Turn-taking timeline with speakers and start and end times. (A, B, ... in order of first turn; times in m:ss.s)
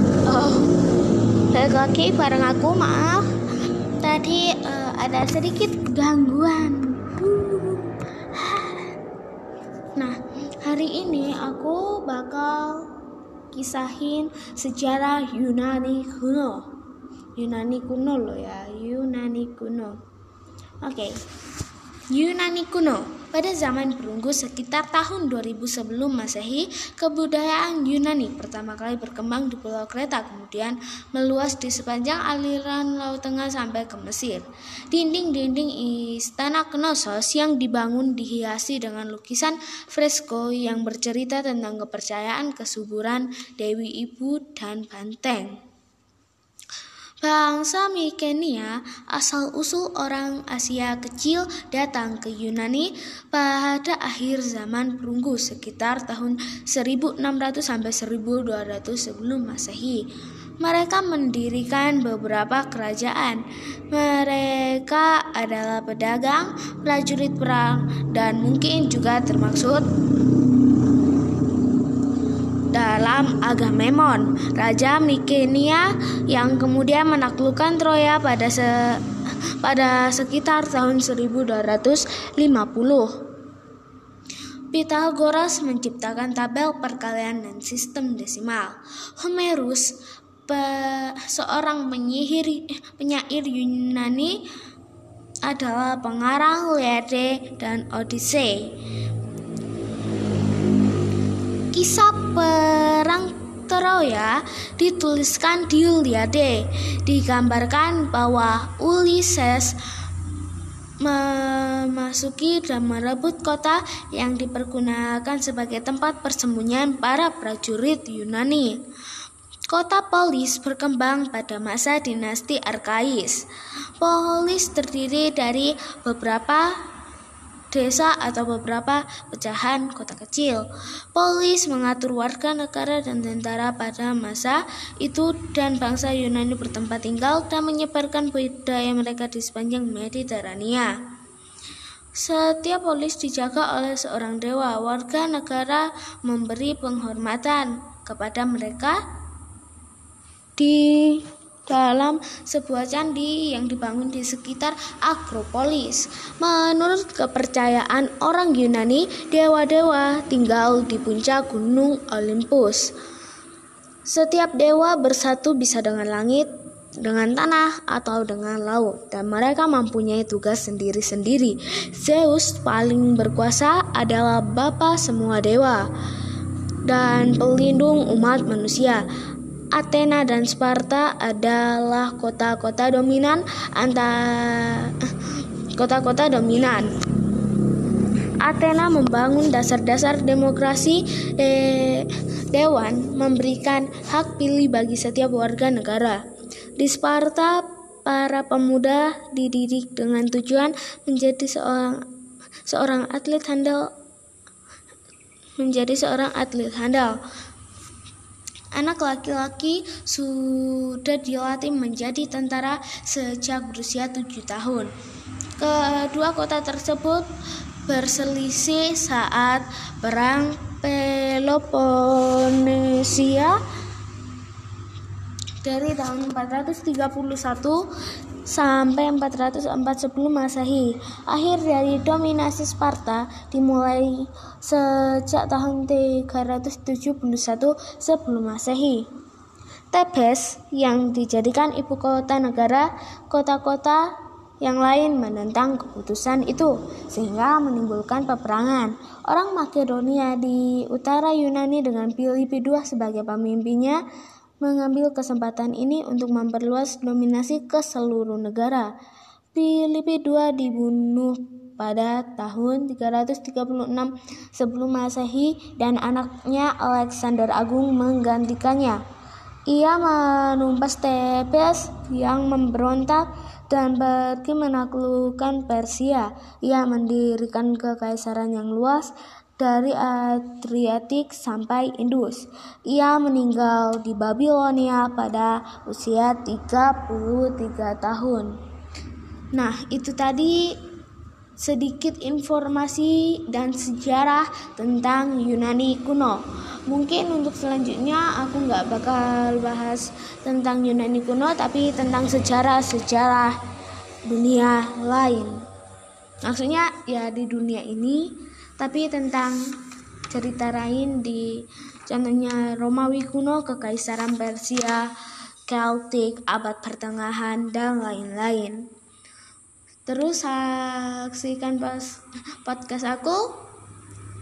0:00.2-0:00.7 A
0:01.5-0:03.3 A
0:04.0-0:08.9 A
0:10.0-0:12.9 A
0:13.5-0:16.7 A
0:17.4-0:20.0 A
0:20.8-0:21.2 A
0:22.1-0:45.6 A
0:47.2-1:00.0 A
1:00.6-1:09.8 A
1:12.7-1:19.0 A
1:19.6-1:23.1 A
1:24.7-1:29.9 A
1:30.5-1:34.4 A
1:35.4-1:38.7 A
1:41.7-1:49.7 A
1:51.0-1:58.8 A
1:59.7-2:03.4 A
2:04.0-2:06.7 A
2:07.7-2:20.9 A
2:22.2-2:29.0 A
2:30.6-2:42.9 A
2:44.1-2:46.5 A
2:47.0-2:55.9 A
2:56.8-2:59.0 A
2:59.7-3:05.1 A
3:05.8-3:06.9 A
3:08.4-3:16.2 A
3:16.8-3:22.0 A
3:22.7-3:23.9 A
3:25.6-3:27.2 A
3:28.7-3:34.9 A
3:35.6-3:37.2 A
3:37.8-3:43.6 A
3:45.6-3:47.8 A
3:48.4-3:59.0 A
3:59.9-4:04.0 A
4:04.6-4:14.0 A
4:14.6-4:18.9 A
4:19.5-4:29.0 A
4:29.7-4:48.5 A
4:49.5-4:50.7 A
4:51.6-5:03.6 A
5:04.2-5:05.6 A
5:06.4-5:08.2 A
5:08.8-5:09.6 A
5:10.3-5:11.5 A
5:12.1-5:15.1 A
5:15.7-5:18.8 A
5:20.1-5:23.6 A